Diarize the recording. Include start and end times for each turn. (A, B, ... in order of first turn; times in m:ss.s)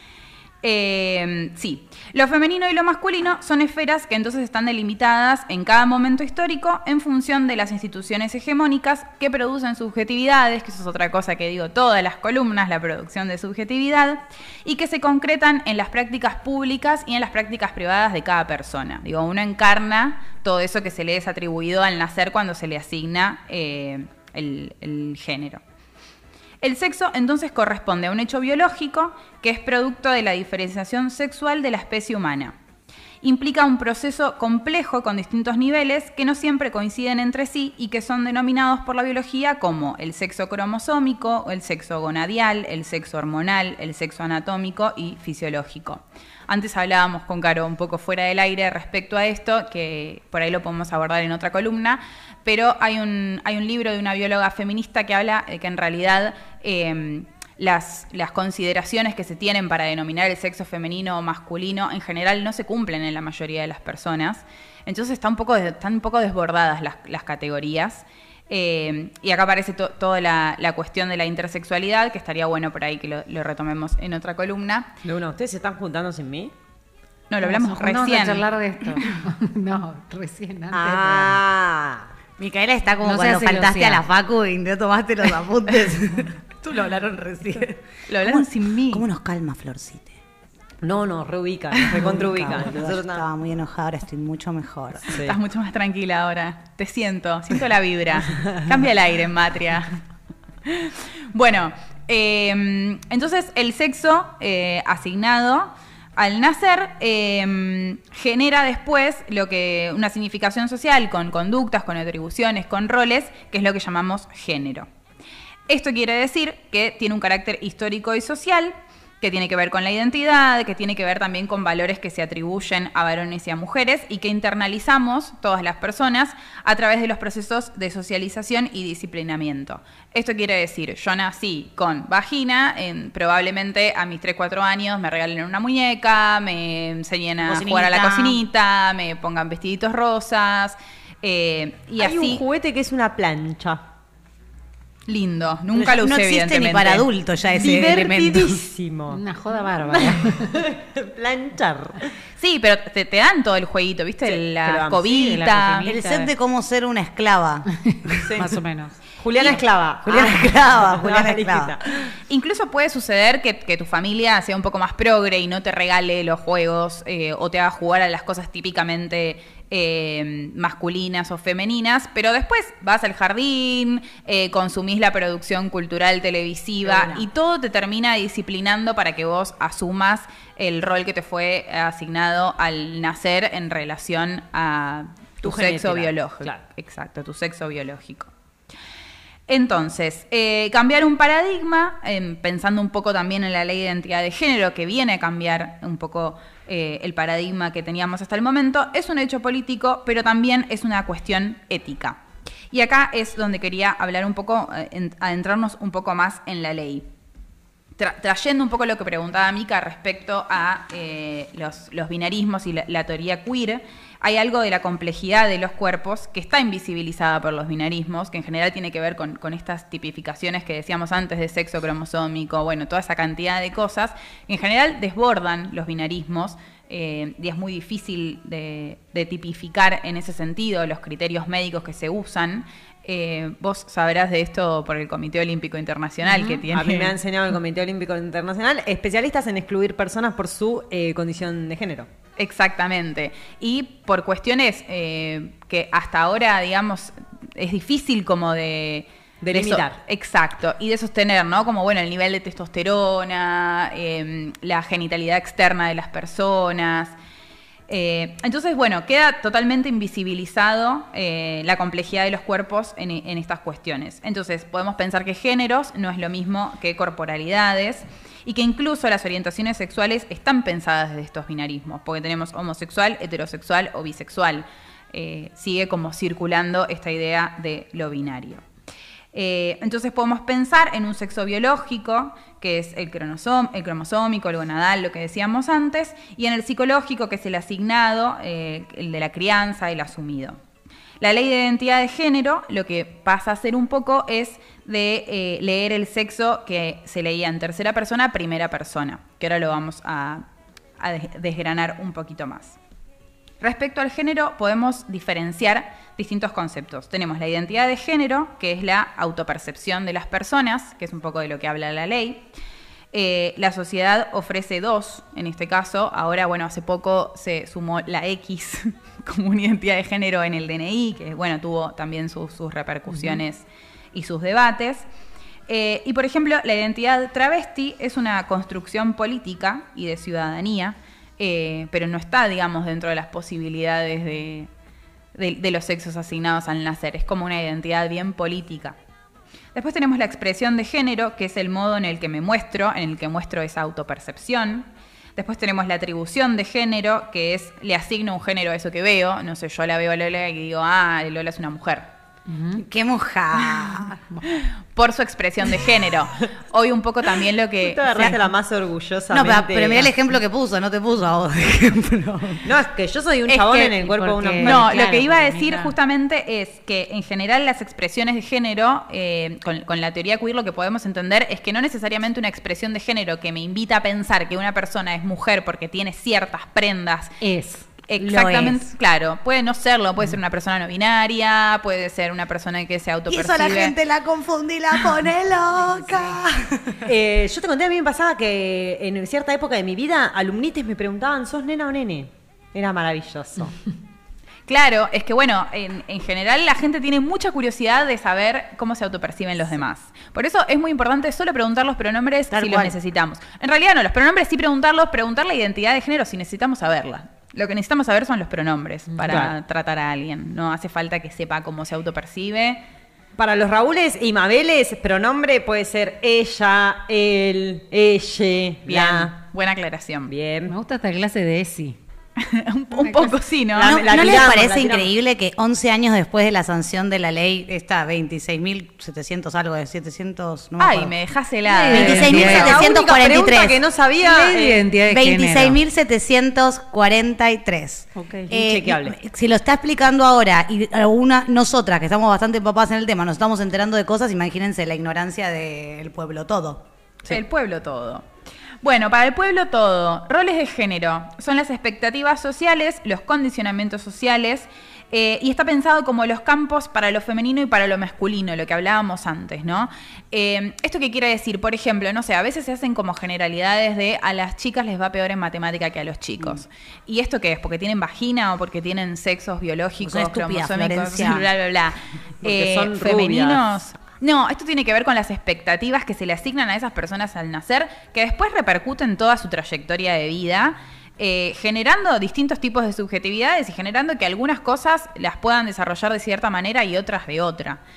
0:00.6-0:25.6 A
0:26.6-0:32.6 A
0:33.2-1:14.9 A
1:15.0-1:16.5 B
1:17.3-1:19.0 A
1:17.4-1:21.4 C
1:20.7-1:22.1 B
1:22.4-1:30.1 D
1:23.0-1:24.0 C
1:28.1-1:29.0 A
1:30.8-1:33.2 B
1:32.0-1:35.1 D
1:35.2-1:39.9 A
1:40.6-1:54.8 A
1:55.7-2:22.4 A
2:17.4-2:18.4 D
2:22.0-2:23.8 B
2:25.1-2:27.1 A
2:25.9-2:28.1 D
2:27.5-2:29.2 B
2:27.6-2:28.6 A
2:29.1-2:30.6 C
2:29.9-2:32.1 B
2:32.4-2:36.0 A
2:34.2-2:35.1 B
2:35.1-2:36.3 C
2:35.8-2:37.7 D
2:37.9-2:39.0 C
2:39.2-2:42.1 B
2:40.0-2:41.7 D
2:42.3-3:08.3 A
2:56.8-2:57.2 B
3:05.4-3:06.6 B
3:09.5-3:22.2 A
3:22.7-3:27.1 A
3:28.0-3:57.2 A
3:56.3-3:56.6 C
3:56.7-4:02.1 B
4:02.4-4:17.1 A
4:09.4-4:10.0 B
4:17.9-4:38.6 A
4:39.3-4:50.6 A
4:51.2-5:00.4 A
5:01.0-5:02.8 A
5:03.6-5:12.5 A
5:13.1-5:25.0 A
5:23.1-5:23.4 C
5:25.7-5:34.7 A
5:35.3-5:39.0 A
5:39.7-5:52.1 A
5:52.5-5:52.8 C
5:52.8-5:54.2 D
5:54.5-5:58.4 A
5:57.8-6:00.1 B
5:59.3-6:02.7 D
6:02.6-6:04.9 B
6:03.5-6:03.8 A
6:03.8-6:05.9 C
6:04.6-6:17.4 A
6:17.4-6:17.9 C
6:18.0-6:23.9 A
6:18.2-6:18.8 D
6:23.3-6:27.0 D
6:25.8-6:26.4 C
6:27.0-6:33.7 B
6:34.7-6:52.8 A
6:42.5-6:42.9 D
6:49.1-6:49.4 C
6:49.2-6:49.5 B
6:53.3-6:59.4 B
6:58.9-7:00.3 A
7:00.3-7:00.7 B
7:00.7-7:02.0 C
7:02.4-7:04.3 A
7:02.9-7:03.3 C
7:03.7-7:05.1 B
7:03.8-7:11.1 D
7:10.8-7:12.8 A
7:11.7-7:12.8 C
7:11.9-7:14.8 B
7:11.9-7:13.8 D
7:14.2-7:15.8 C
7:15.1-7:26.8 D
7:18.1-7:18.5 C
7:18.5-7:19.2 B
7:27.3-7:28.2 A
7:28.8-8:07.8 A
7:50.0-7:51.4 D
7:52.4-7:53.8 B